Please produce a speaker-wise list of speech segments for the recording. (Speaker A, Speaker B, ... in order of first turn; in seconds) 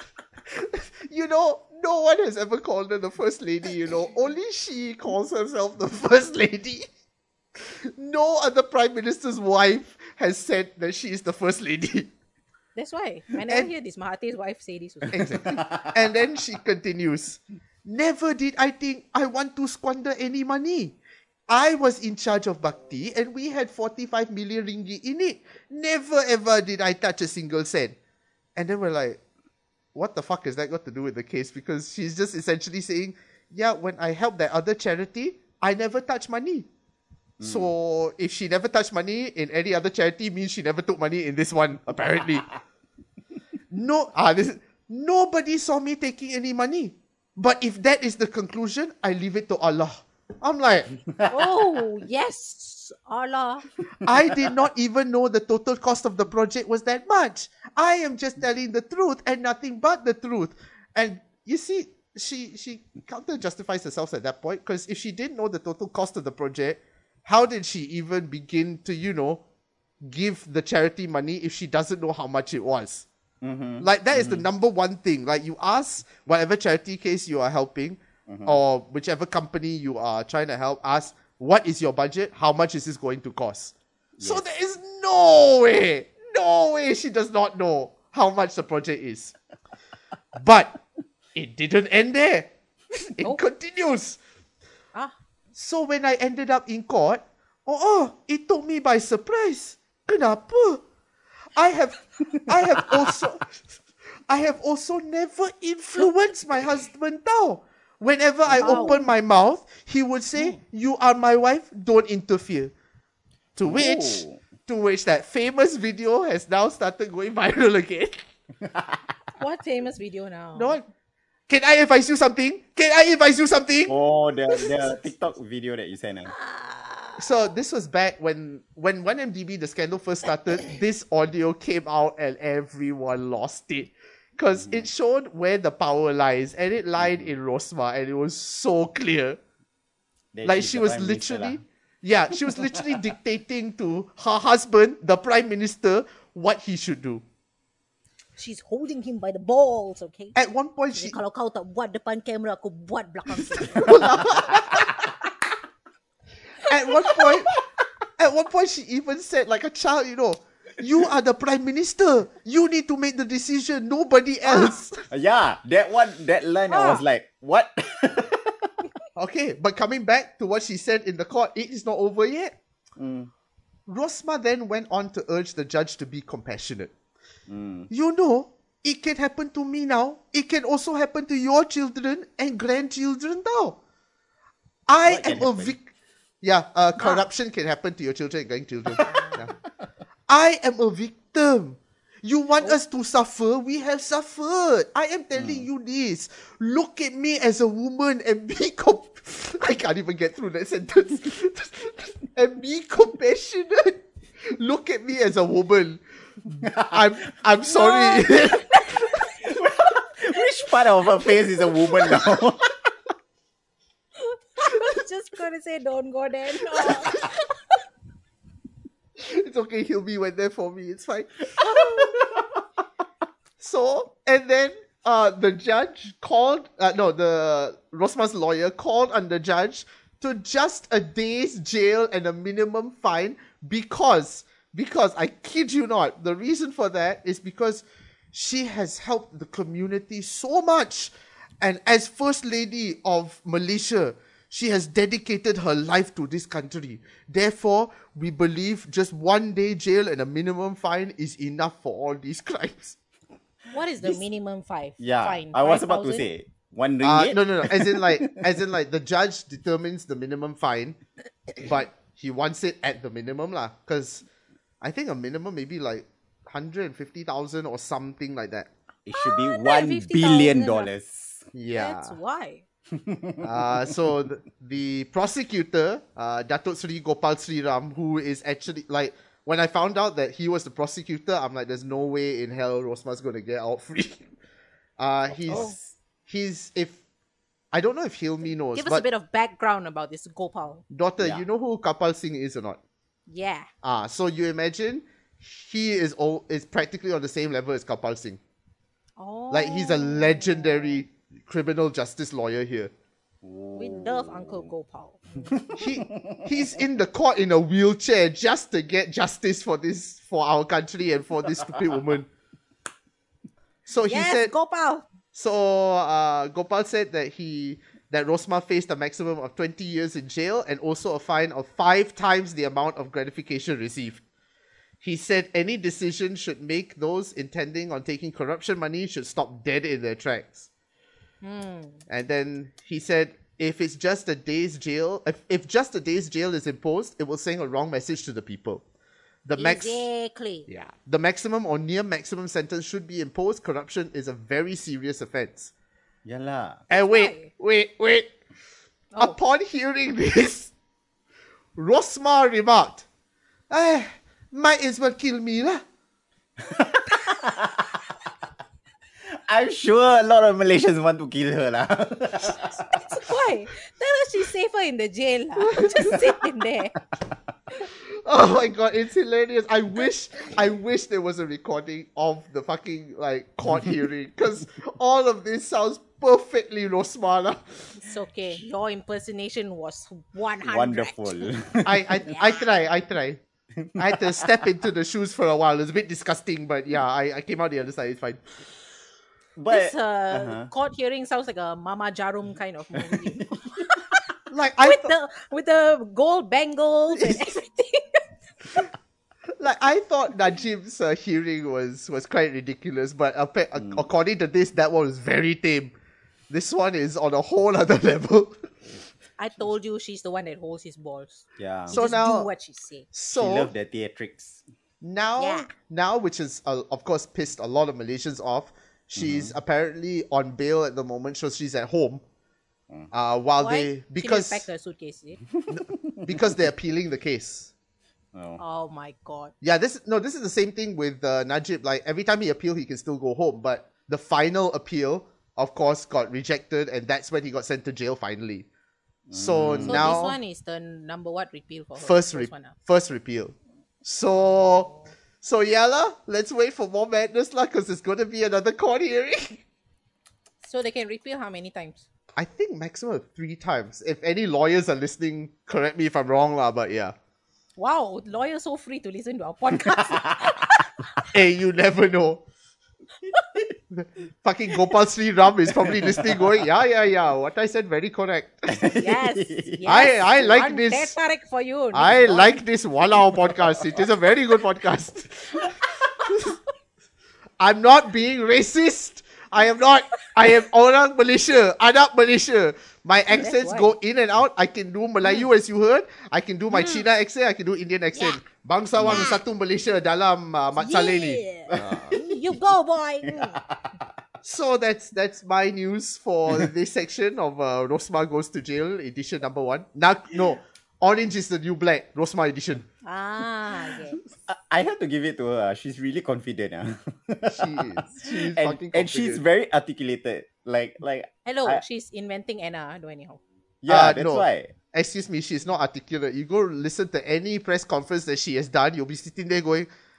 Speaker A: 0.5-6.9, 7.6-12.1, 15.1-21.0, 21.5-28.0, 28.6-29.2, 29.9-36.7, 37.4-42.5, 43.7-51.0, 54.0-69.4, 70.0-73.1, 73.8-89.3, 90.4-90.8, 91.3-94.2, 95.5-100.8, 101.5-103.5, 104.3-112.7, 113.6-118.2, 120.5-120.9, 121.5-123.9, 127.2-139.4, 140.4-147.2, 150.3-151.2, 153.4-154.9, 156.7-157.5, 158.2-165.1, 169.2-172.6, 173.9-176.9, 177.9-183.8, 184.9-185.9, 186.4-189.5, 190.3-206.0, 206.8-209.3, 216.8-217.2, 219.2-222.2, 223.6-253.0, 257.0-261.0, 261.6-264.2, 264.8-268.7, 271.5-272.2, 273.4-284.3, 285.0-285.7, 286.3-287.0, 287.7-289.0, 290.9-292.8, 293.8-298.4, 299.5-302.9, 305.8-312.3, 313.9-314.5, 315.3-324.2, 325.0-330.7, 332.1-338.8, 339.4-340.1, 340.7-345.7, 346.9-348.3, 349.2-350.7, 351.8-353.1, 353.7-355.8, 365.6-366.4, 368.2-377.9, 381.9-383.4, 384.0-388.6, 394.5-395.1, 397.1-397.6, 399.6-405.9, 406.5-408.6, 411.9-412.5, 413.1-413.7, 415.0-422.2, 423.1-424.7, 426.2-427.7, 429.6-438.7, 439.3-440.4, 442.0-444.9, 445.4-449.6, 452.4-457.1, 461.3-462.4, 463.9-468.9, 469.9-471.2, 471.9-476.6, 477.6-492.0, 494.4-502.9, 507.5-509.4, 513.9-519.9
Speaker B: 12.8-15.4, 51.3-53.7, 108.6-109.1, 119.4-120.8, 126.3-127.3, 148.4-150.4, 150.9-154.2, 156.7-157.2, 164.5-164.8, 166.7-167.0, 187.0-187.2, 189.0-189.4, 207.7-209.3, 214.2-217.8, 253.7-256.3, 269.2-270.9, 271.7-272.6, 285.5-285.8, 288.7-290.8, 293.3-293.7, 299.2-301.0, 303.8-305.7, 314.1-315.1, 331.4-332.0, 339.6-340.7, 347.0-347.5, 362.8-367.0, 378.0-381.5, 382.3-382.7, 389.7-394.2, 394.8-398.2, 409.4-413.1, 415.4-415.7, 423.6-425.4, 428.6-429.5, 439.9-442.8, 444.5-445.1, 450.6-452.1, 457.8-461.2, 468.9-472.6, 483.3-483.9, 486.7-487.1, 488.1-488.4, 489.1-489.4, 490.8-493.6, 503.0-504.2, 511.5-513.4
Speaker C: 15.1-16.1, 37.4-37.7, 51.1-51.5, 73.4-74.5, 78.3-78.6, 84.2-84.4, 108.5-108.9, 113.7-114.4, 118.6-119.0, 123.9-126.3, 134.6-134.9, 137.0-137.3, 140.3-141.6, 142.4-142.8, 153.8-155.1, 165.1-168.7, 173.0-173.3, 177.5-177.9, 185.0-185.8, 195.3-195.7, 206.5-207.0, 209.4-212.7, 221.6-222.4, 255.0-258.4, 269.1-271.5, 272.9-273.9, 285.3-285.9, 291.2-291.4, 303.4-304.7, 305.4-306.5, 346.2-346.8, 356.6-357.9, 359.3-362.8, 380.7-382.2, 383.8-384.7, 389.6-390.7, 392.9-393.9, 403.8-404.1, 411.6-412.0, 413.3-414.6, 419.2-419.6, 425.6-426.4, 428.3-428.6, 439.3-440.2, 459.8-460.7, 463.2-463.6, 465.9-466.4, 468.7-470.0, 489.0-489.3, 491.7-492.6, 493.2-493.9, 504.1-511.8, 513.8-514.7